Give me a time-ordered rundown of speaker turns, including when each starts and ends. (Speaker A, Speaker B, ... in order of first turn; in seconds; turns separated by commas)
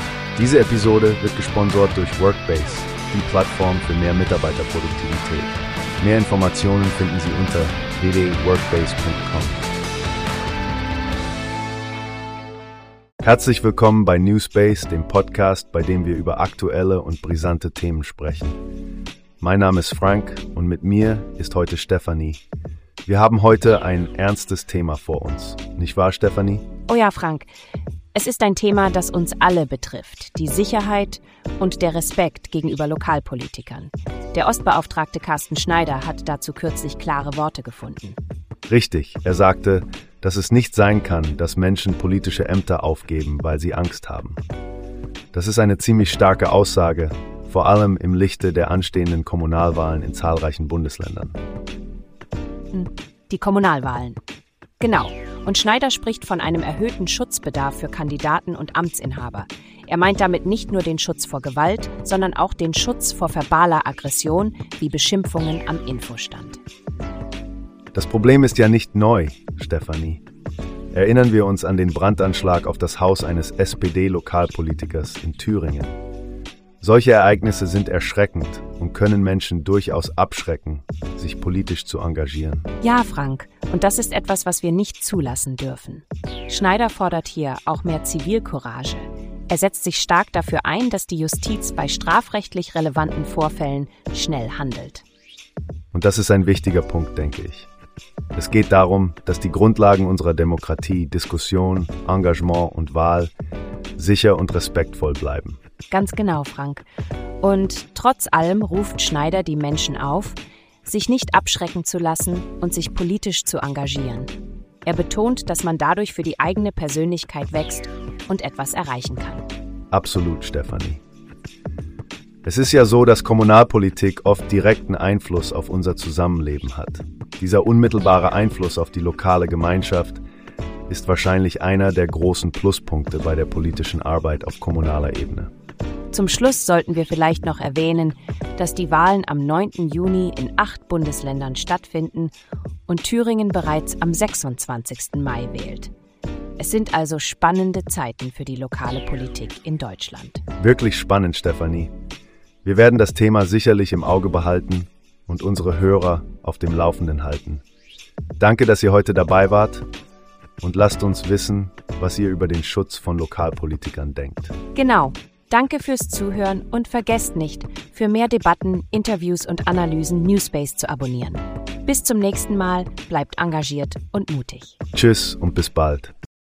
Speaker A: 0.3-9.6, Speaker A: 13.2-18.6, Speaker A: 19.4-22.4, Speaker A: 23.1-26.6, Speaker B: 26.9-27.5, Speaker B: 28.1-38.2, Speaker A: 38.7-44.4, Speaker A: 45.3-51.4, Speaker B: 52.7-54.2, Speaker B: 54.8-66.6, Speaker A: 67.9-70.2, Speaker A: 70.9-76.0, Speaker A: 76.8-82.7, Speaker B: 82.8-95.0, Speaker A: 95.9-97.7, Speaker A: 98.3-103.3, Speaker A: 104.0-105.6, Speaker B: 105.9-106.8, Speaker B: 107.4-114.3, Speaker B: 114.8-119.4, Speaker A: 119.9-121.0, Speaker A: 122.4-130.2, Speaker A: 130.9-135.5, Speaker B: 136.1-142.3, Speaker B: 142.9-145.9, Speaker B: 146.6-150.4, Speaker A: 150.6-151.9, Speaker A: 152.6-157.6, Speaker A: 158.4-159.8, Speaker A: 160.6-164.5, Speaker B: 164.7-174.8, Speaker A: 174.9-176.1